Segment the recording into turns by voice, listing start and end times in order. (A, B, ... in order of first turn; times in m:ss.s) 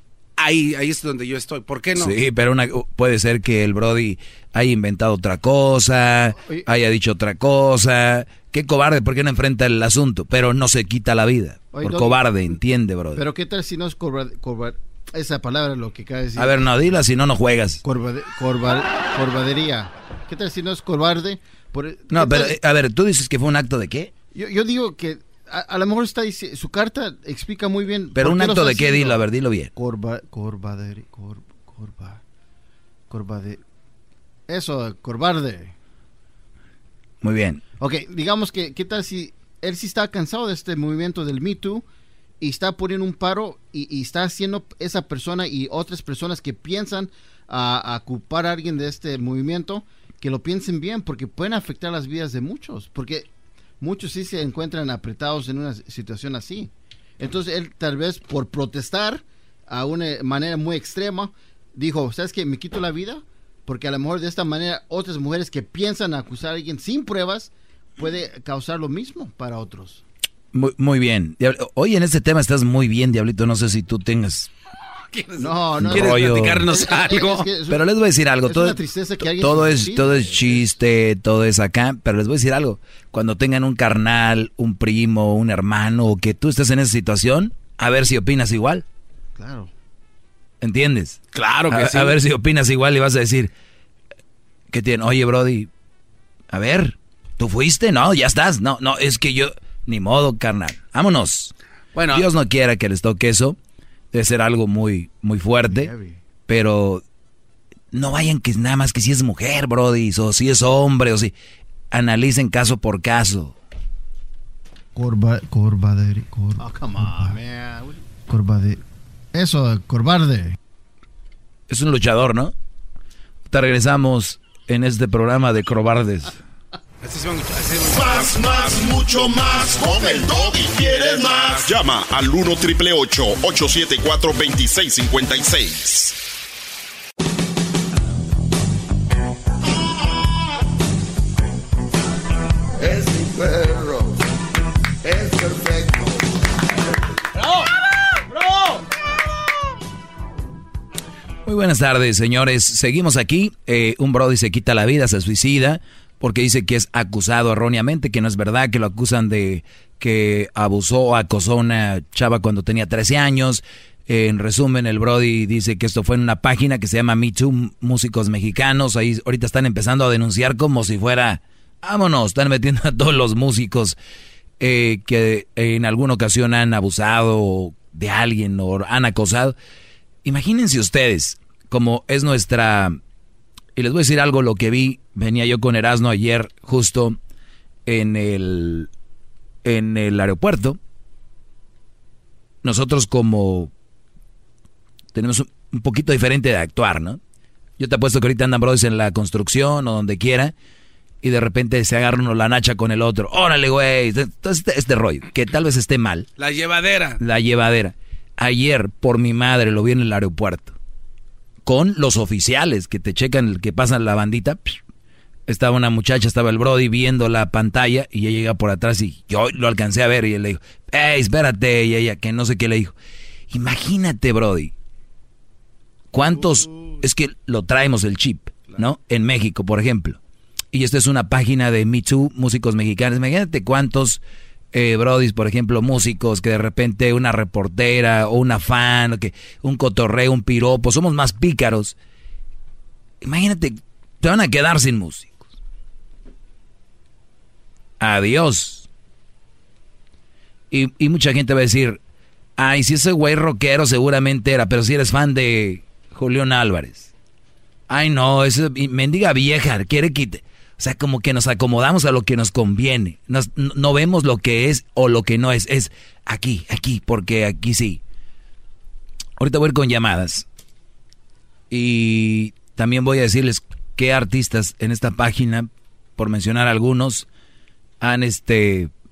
0:00.4-0:02.2 A
0:02.0-0:13.2 B
0:06.4-0:06.6 C
0:11.7-0:12.2 C
0:13.1-0:16.7 C
0:16.4-0:17.8 B
0:17.8-0:22.6 C
0:22.1-0:24.1 B
0:24.3-0:29.2 C
0:28.1-0:29.7 B
0:29.8-0:32.2 C
0:33.1-0:33.6 C
0:34.5-0:35.7 C
0:37.2-0:37.6 B
0:37.8-0:41.8 C
0:42.4-0:53.3 C
0:53.8-1:10.0 C
1:10.5-1:14.5 B
1:15.1-1:17.5 A
1:15.4-1:17.8 C
1:15.9-1:16.6 B
1:17.7-1:18.8 B
1:18.4-1:20.7 C
1:19.4-1:28.8 B
1:29.4-1:29.7 C
1:30.6-1:31.2 B
1:31.3-1:32.2 A
1:31.7-1:33.5 B
1:34.7-1:35.7 B
1:36.5-1:41.5 B
1:41.9-1:42.2 A
1:42.1-1:43.6 B
1:44.1-1:45.9 B
1:45.7-1:46.2 C
1:46.5-1:47.0 B
1:47.9-1:51.3 B
1:51.9-1:53.5 B
1:54.9-1:58.8 C
1:59.3-2:00.6 C
2:01.7-2:02.5 B
2:03.5-2:06.3 B
2:07.0-2:08.7 A
2:07.8-2:16.1 D
2:10.7-2:11.8 A
2:22.8-2:24.2 E
2:25.0-2:26.2 E
2:31.4-2:54.0 B
2:54.6-2:59.6 B
3:00.2-3:03.0 B
3:03.8-3:07.2 B
3:07.9-3:08.9 B
3:09.6-3:10.8 B
3:12.6-3:13.7 B
3:15.1-3:17.2 B
3:17.8-3:20.5 B
3:21.2-3:26.3 B
3:26.4-3:27.2 A
3:27.2-3:30.7 B
3:31.6-3:34.8 B
3:35.5-3:42.9 B
3:43.5-3:44.7 B
3:46.1-3:50.2 B
3:50.7-3:54.2 B
3:54.7-4:01.9 B
4:03.2-4:05.4 B
4:08.0-4:08.9 B
4:10.7-4:12.0 B
4:12.6-4:17.1 B
4:17.9-4:28.0 B
4:29.4-4:30.4 B
4:31.7-4:37.3 B
4:38.0-4:38.9 B